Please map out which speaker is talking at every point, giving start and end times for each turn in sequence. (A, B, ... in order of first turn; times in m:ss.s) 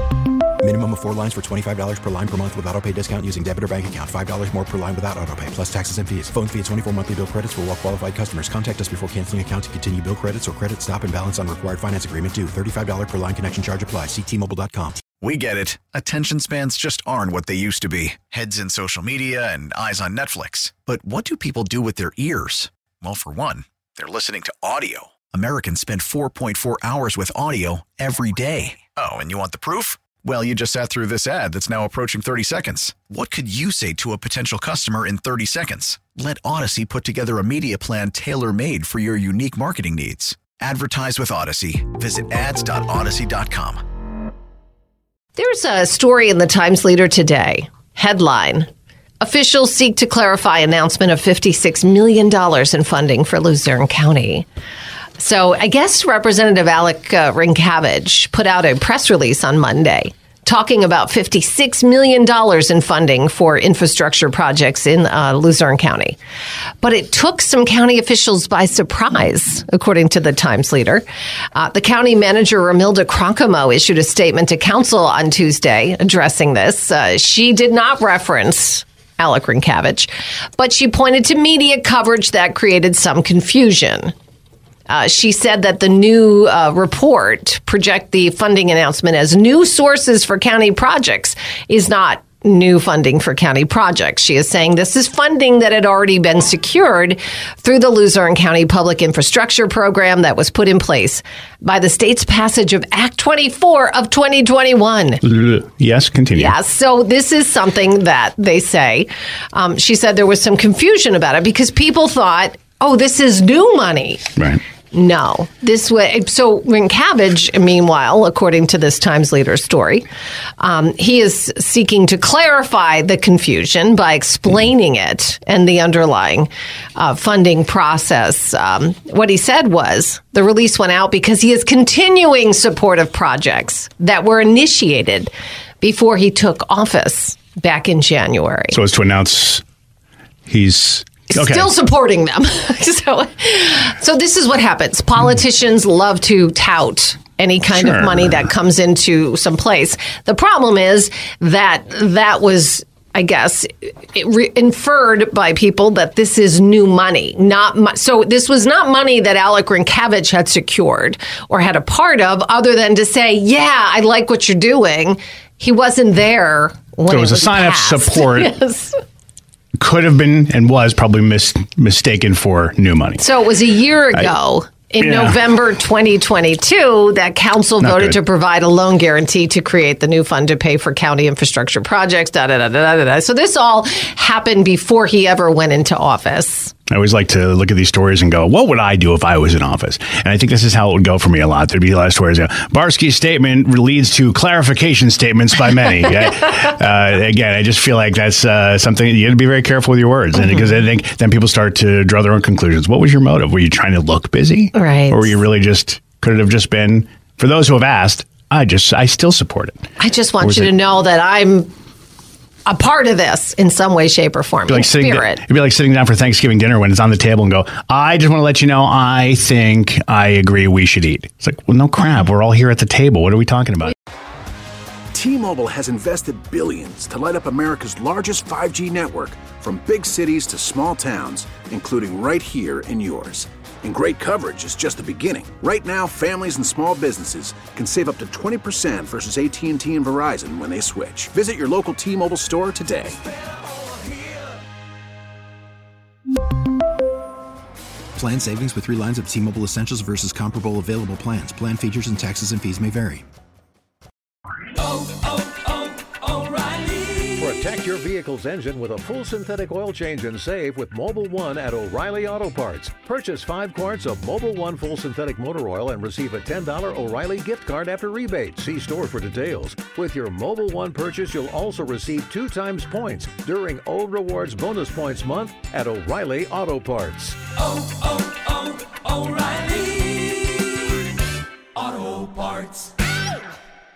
0:00.6-0:15.0 A
0:15.2-0:43.8 B
0:45.4-0:48.7 C
0:49.2-0:54.4 C
0:55.2-1:06.2 C
1:06.8-1:11.0 C
1:11.5-1:24.1 C
1:24.9-1:45.2 C
1:45.2-1:46.5 D
1:46.4-1:54.3 C
1:54.9-2:00.0 C
2:00.6-2:18.8 C
2:18.7-2:19.6 D
2:20.5-2:21.7 D
2:21.3-2:48.9 C
2:27.8-2:28.2 D
2:47.1-2:48.5 D
2:49.8-2:53.2 D
2:53.2-3:06.7 C
2:55.0-2:55.4 D
2:57.8-2:58.2 D
3:06.9-3:29.8 D
3:20.4-3:20.7 C
3:24.7-3:25.4 C
3:30.0-3:31.7 C
3:30.4-3:30.7 D
3:32.6-3:35.4 C
3:34.7-3:43.9 D
3:45.1-4:03.2 E
4:08.1-4:13.2 B
4:17.3-4:37.4 F
4:38.9-4:40.0 G
4:41.9-4:42.9 G